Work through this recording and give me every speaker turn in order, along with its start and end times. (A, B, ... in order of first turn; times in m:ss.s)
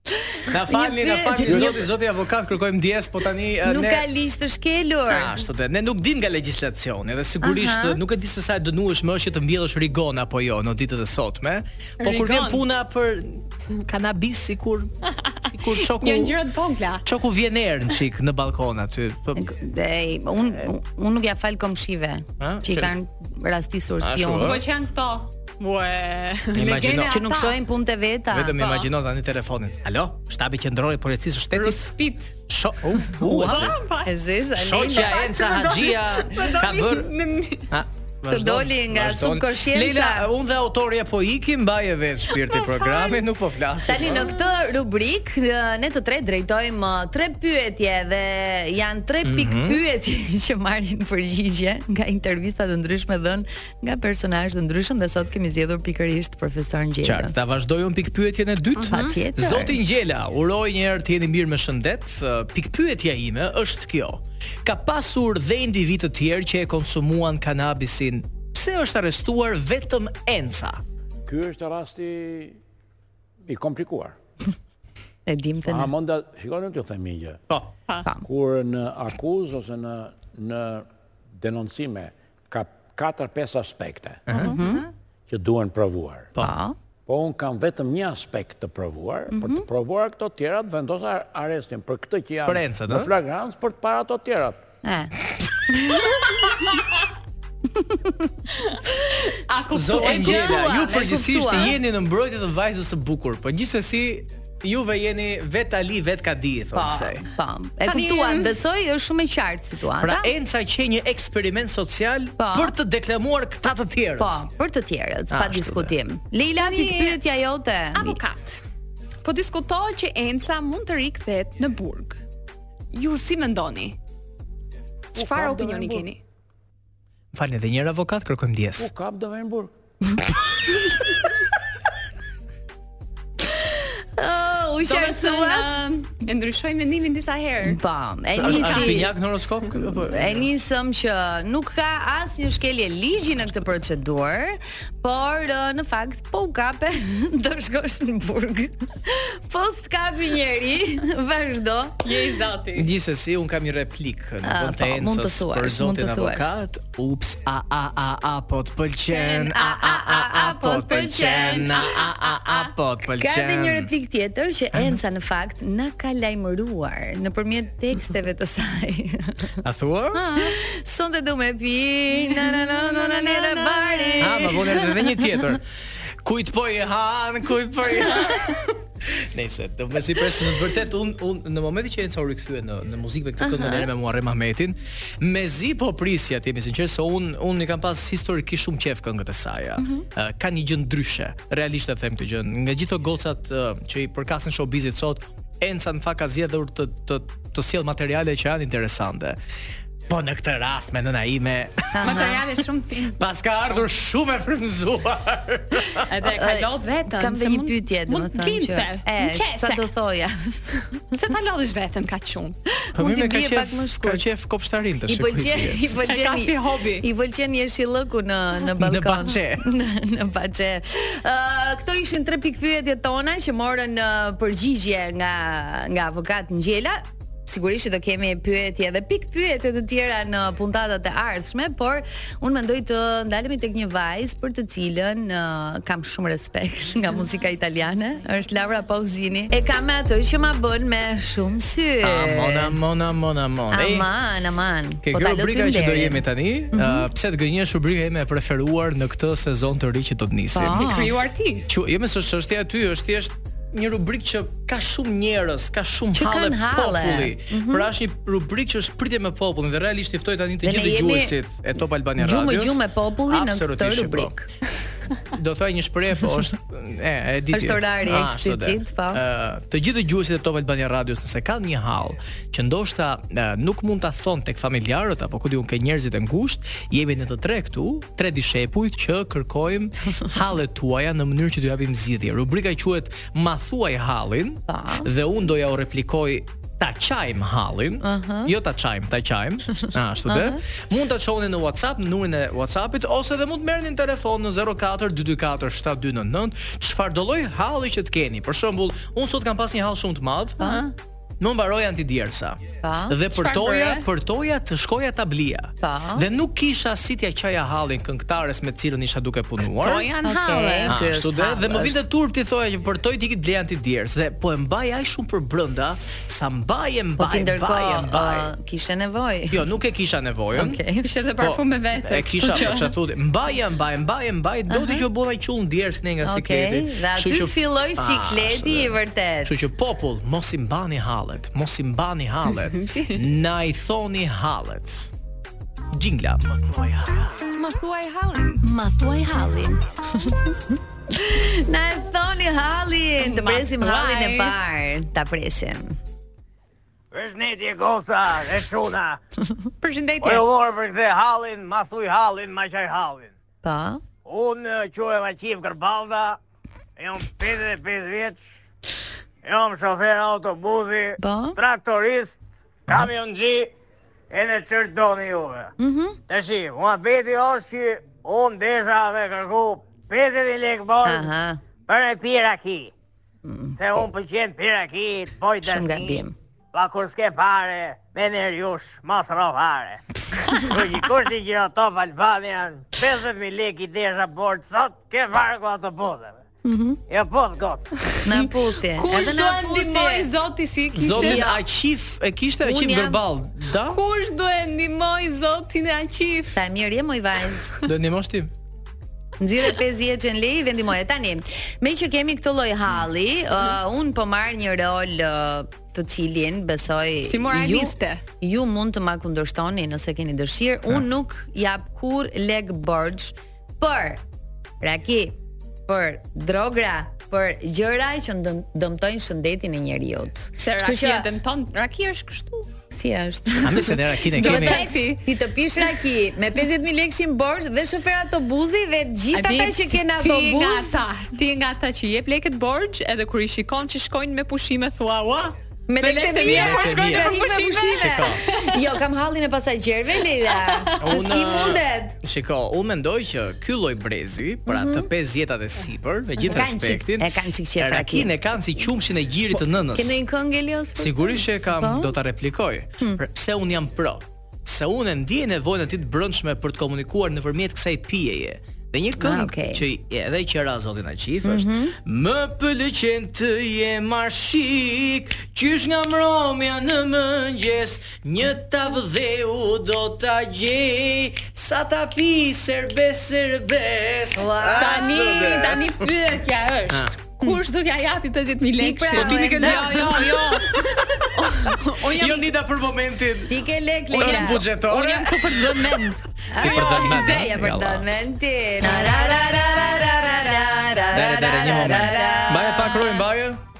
0:00.4-0:01.9 A
0:00.5-0:04.0 B
0:01.5-0:01.7 C
0:03.6-0:05.4 A
0:05.1-0:14.9 B
0:07.4-0:08.0 A
0:12.0-0:12.6 D
0:15.2-0:17.0 D
0:15.5-0:16.4 B
0:17.0-0:19.4 B
0:19.4-0:24.6 A
0:22.4-0:22.9 B
0:24.0-0:24.6 B
0:24.4-0:27.6 D
0:26.6-0:27.2 B
0:27.1-0:28.6 A
0:28.3-0:31.9 B
0:28.6-0:28.9 D
0:31.5-0:32.3 D
0:32.5-0:33.8 B
0:33.2-0:35.2 A
0:33.3-0:34.2 D
0:34.6-0:37.1 B
0:34.8-0:37.7 D
0:37.7-0:44.3 B
0:38.3-0:40.3 A
0:42.3-0:43.2 D
0:43.8-0:57.3 A
0:49.2-0:49.8 B
0:57.0-1:10.8 B
0:58.8-0:59.2 D
0:58.9-0:59.8 A
1:11.2-1:12.6 C
1:13.5-1:14.2 C
1:15.2-1:15.9 A
1:15.6-1:17.4 C
1:18.2-1:20.8 C
1:21.4-1:24.3 C
1:24.3-1:24.5 B
1:24.3-1:24.8 A
1:24.4-1:24.9 D
1:25.3-1:26.3 C
1:26.4-1:26.8 A
1:27.1-1:34.6 C
1:29.3-1:29.7 A
1:32.5-1:33.1 B
1:34.8-1:35.1 A
1:35.7-1:36.2 A
1:37.9-1:38.1 A
1:38.6-1:40.8 D
1:39.7-1:47.2 B
1:40.0-1:41.8 A
1:46.7-1:50.3 A
1:47.8-1:48.5 D
1:50.0-1:54.3 B
1:52.4-1:52.8 A
1:54.2-1:58.2 A
1:55.3-1:55.9 B
1:56.6-1:57.2 D
1:57.9-1:58.6 D
1:59.2-2:02.2 D
2:02.9-2:04.0 D
2:05.1-2:06.2 D
2:05.2-2:06.1 C
2:07.3-2:08.9 B
2:08.8-2:09.7 C
2:14.2-2:15.7 A
2:14.8-2:17.8 D
2:17.6-2:19.1 A
2:18.4-2:20.5 B
2:18.4-2:18.9 D
2:20.1-2:32.3 A
2:32.0-2:32.9 D
2:32.8-2:43.9 B
2:34.4-2:36.5 A
2:39.1-2:42.7 D
2:39.3-2:41.6 A
2:43.2-2:49.5 A
2:49.6-2:50.3 B
2:50.2-2:50.5 D
2:50.4-2:55.4 A
2:52.2-2:54.4 D
2:54.2-2:55.6 B
2:56.2-2:58.7 B
2:59.2-3:19.4 B
3:03.4-3:03.8 A
3:09.8-3:10.0 A
3:20.1-3:22.2 B
3:21.9-3:22.4 A
3:22.0-3:23.2 D
3:23.2-3:26.1 B
3:26.1-3:29.9 D
3:26.2-3:31.0 A
3:31.1-3:32.6 D
3:32.9-3:34.2 A
3:33.0-3:35.8 B
3:35.1-4:02.8 A
3:36.1-3:37.1 D
3:38.8-3:39.7 B
4:02.0-4:04.1 B
4:03.7-4:07.1 A
4:05.0-4:10.9 B
4:10.5-4:11.1 A
4:10.8-4:11.6 D
4:11.7-4:24.3 B
4:16.2-4:17.9 A
4:20.6-4:21.4 A
4:22.2-4:24.5 A
4:25.3-5:00.8 B
4:27.5-4:29.2 A
4:44.7-4:45.1 A
4:48.0-4:48.5 A
4:50.3-4:50.6 A
5:00.6-5:00.9 D
5:01.4-5:10.1 B
5:02.8-5:03.2 A
5:03.3-5:04.0 D
5:05.8-5:06.3 A
5:09.6-5:11.0 D
5:10.2-5:12.0 A
5:10.9-5:18.5 B
5:17.2-5:19.7 A
5:19.5-5:20.8 B
5:20.5-5:21.1 A
5:21.0-5:22.9 D
5:21.4-5:35.1 B
5:24.7-5:25.1 A
5:26.2-5:29.6 A
5:32.7-5:33.2 D
5:35.9-5:37.5 B
5:37.6-5:38.6 D
5:38.6-5:46.0 A
5:43.2-5:44.6 D
5:47.1-5:49.2 E
5:49.8-5:50.5 D
5:50.2-5:53.3 E
5:53.6-5:54.0 A
5:54.2-5:56.4 E
5:57.0-5:58.5 E
5:59.4-6:02.4 E
6:01.2-6:01.6 A
6:02.9-6:03.7 E
6:04.3-6:05.7 E
6:05.8-6:06.2 A
6:06.3-6:11.3 E
6:11.0-6:11.6 A
6:11.9-6:12.9 E
6:13.4-6:14.0 A
6:13.8-6:20.0 E
6:15.6-6:16.4 A
6:20.6-6:26.4 E
6:26.6-6:27.0 A
6:27.1-6:27.8 E
6:28.2-6:30.3 A
6:28.3-6:31.4 D
6:31.0-6:34.0 B
6:31.1-6:31.6 A
6:32.6-6:33.2 A
6:33.8-6:36.6 D
6:36.5-6:37.7 A
6:37.8-6:38.5 B
6:39.4-6:54.2 A
6:47.2-6:48.2 D
6:54.8-7:01.3 A
7:00.6-7:02.7 D
7:02.9-7:11.0 A
7:03.6-7:04.9 B
7:04.4-7:05.3 D
7:09.3-7:18.8 D
7:15.9-7:22.2 A
7:16.4-7:17.3 B
7:17.9-7:18.4 B
7:20.5-7:21.2 D
7:21.0-7:27.3 B
7:24.7-7:25.1 A
7:26.4-7:28.4 A
7:27.8-7:30.2 B
7:29.5-7:32.2 A
7:31.0-7:56.1 B
7:39.2-7:39.8 A
7:41.4-7:42.0 A
7:54.3-7:55.2 A
7:54.8-8:00.7 D
7:56.9-7:57.1 B
7:58.8-8:00.6 A
7:59.1-8:00.6 B
8:01.3-8:02.5 D
8:02.1-8:03.6 B
8:03.5-8:04.6 A
8:04.1-8:06.0 B
8:04.2-8:07.5 D
8:06.5-8:13.2 A
8:06.6-8:08.1 B
8:11.1-8:13.6 B
8:11.6-8:12.9 D